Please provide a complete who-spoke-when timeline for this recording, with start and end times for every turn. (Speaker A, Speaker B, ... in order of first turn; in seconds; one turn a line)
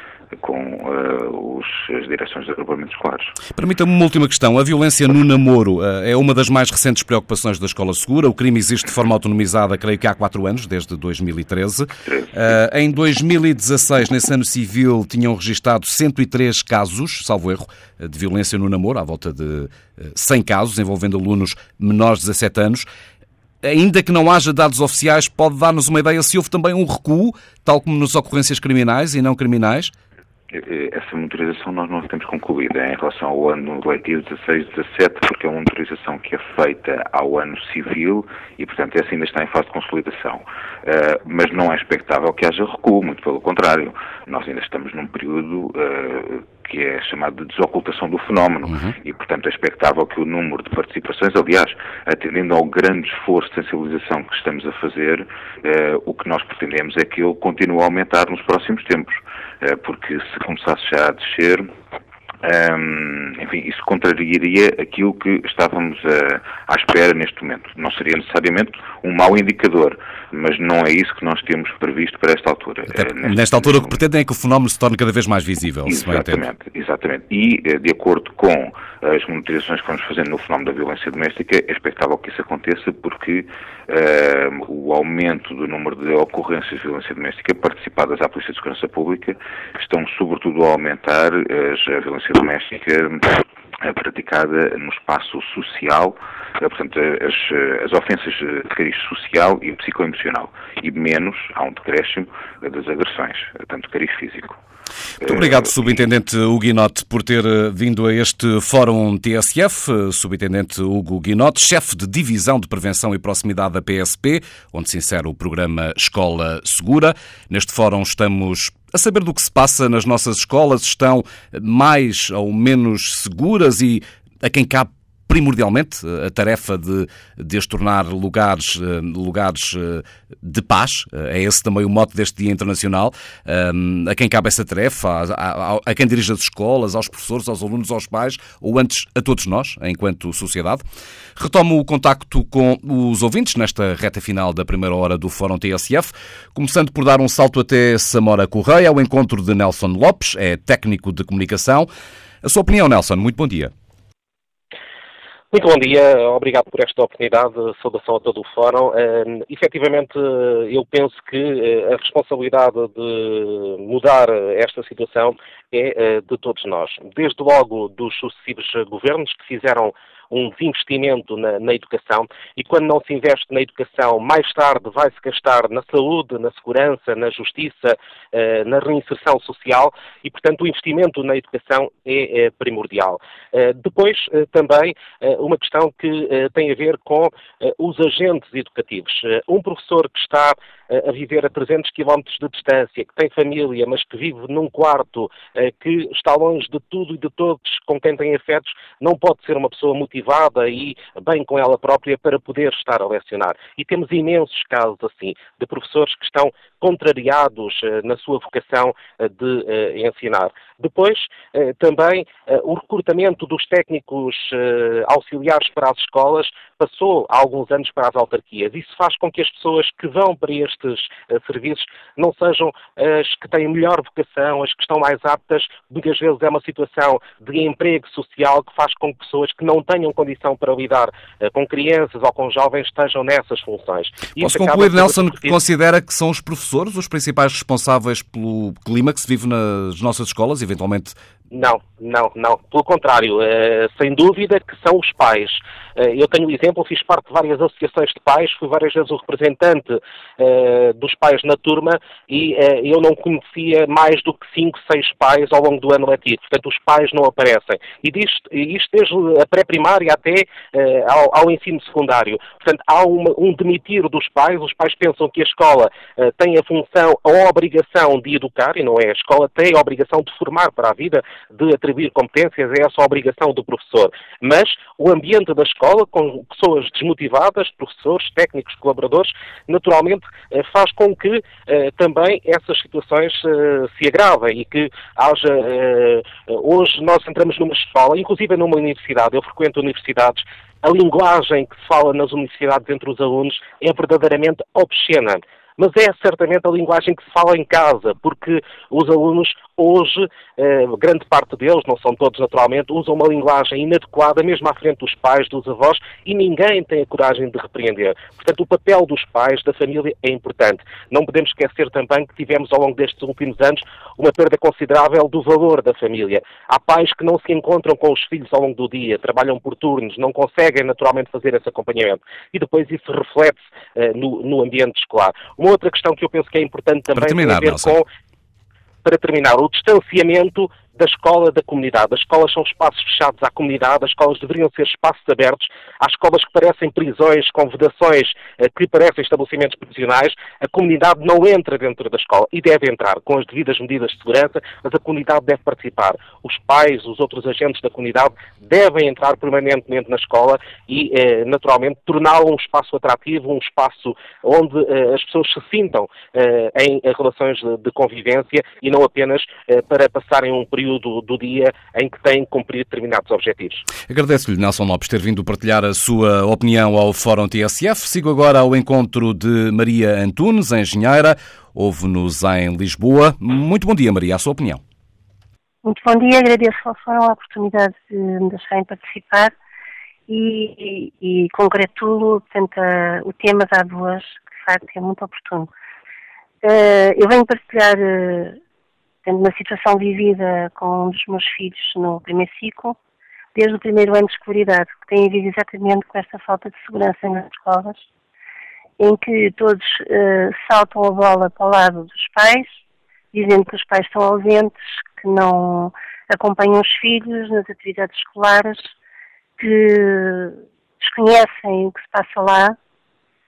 Speaker A: 0.4-3.4
Speaker B: 3.5-22.9
Speaker B: 23.6-29.9
Speaker A: 30.5-61.7
Speaker B: 48.7-48.9
Speaker A: 62.4-74.0
Speaker B: 73.0-76.5
Speaker A: 75.9-104.6
Speaker A: 105.2-106.0
Speaker B: 105.2-140.8
Speaker B: 141.4-151.9
Speaker B: 152.4-153.7
Speaker C: 155.5-235.6
Speaker B: 234.4-241.2
Speaker C: 241.5-328.1
Speaker B: 327.1-328.0
Speaker C: 329.0-363.9
Speaker B: 364.1-374.8
Speaker D: 375.8-379.5
Speaker D: 380.3-385.7
Speaker D: 386.6-388.6
Speaker D: 389.2-393.0
Speaker D: 393.6-398.1
Speaker D: 399.0-402.8
Speaker D: 403.3-408.9
Speaker D: 409.6-412.8